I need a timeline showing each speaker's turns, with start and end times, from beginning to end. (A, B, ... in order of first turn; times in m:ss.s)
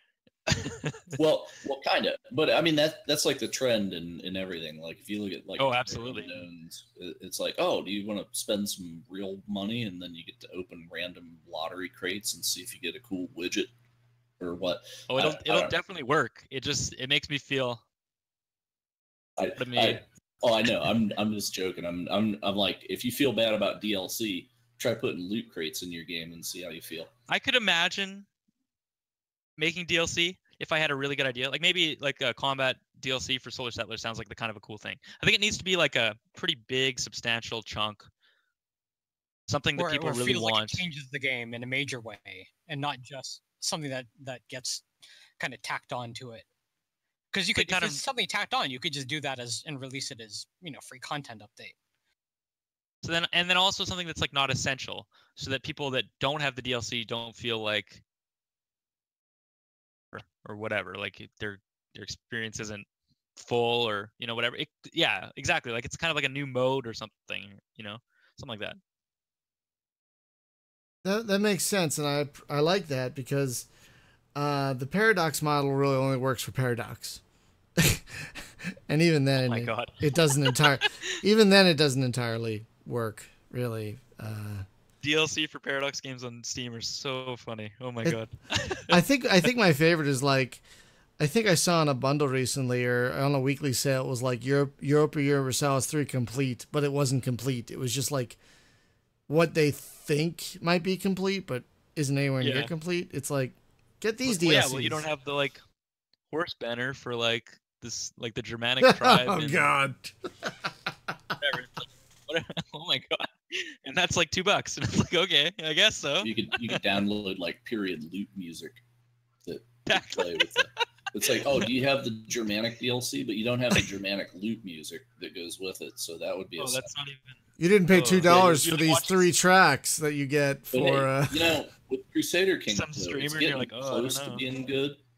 0:00.5-0:01.2 A
0:01.2-0:13.7 B
0:05.6-0:06.4 A
0:14.4-0:15.7 B
0:15.1-0:17.8 A
0:19.4-0:27.1 B
0:19.6-0:20.0 A
0:27.3-0:28.3 A
0:29.6-0:38.1 A
0:39.5-0:40.8 A
0:39.8-0:44.8 C
0:45.4-0:46.5 C
0:47.3-0:51.8 C
0:47.6-0:48.0 A
0:53.0-0:58.0 A
1:00.1-1:02.9 A
1:03.4-1:08.8 A
1:11.0-1:13.7 D
1:14.4-1:17.2 D
1:17.8-1:24.7 D
1:19.4-1:21.2 A
1:25.0-1:29.0 A
1:28.9-1:30.6 D
1:31.2-1:38.4 D
1:39.3-1:45.0 D
1:42.4-1:42.7 A
1:44.2-1:45.6 A
1:46.3-1:49.7 A
1:48.8-1:50.5 D
1:51.4-1:56.8 A
1:56.2-1:58.8 B
1:59.4-2:06.9 B
1:59.9-2:01.6 A
2:06.6-2:07.4 A
2:07.6-2:11.6 D
2:07.9-2:09.3 A
2:08.2-2:08.6 B
2:10.7-2:15.0 B
2:12.7-2:14.4 A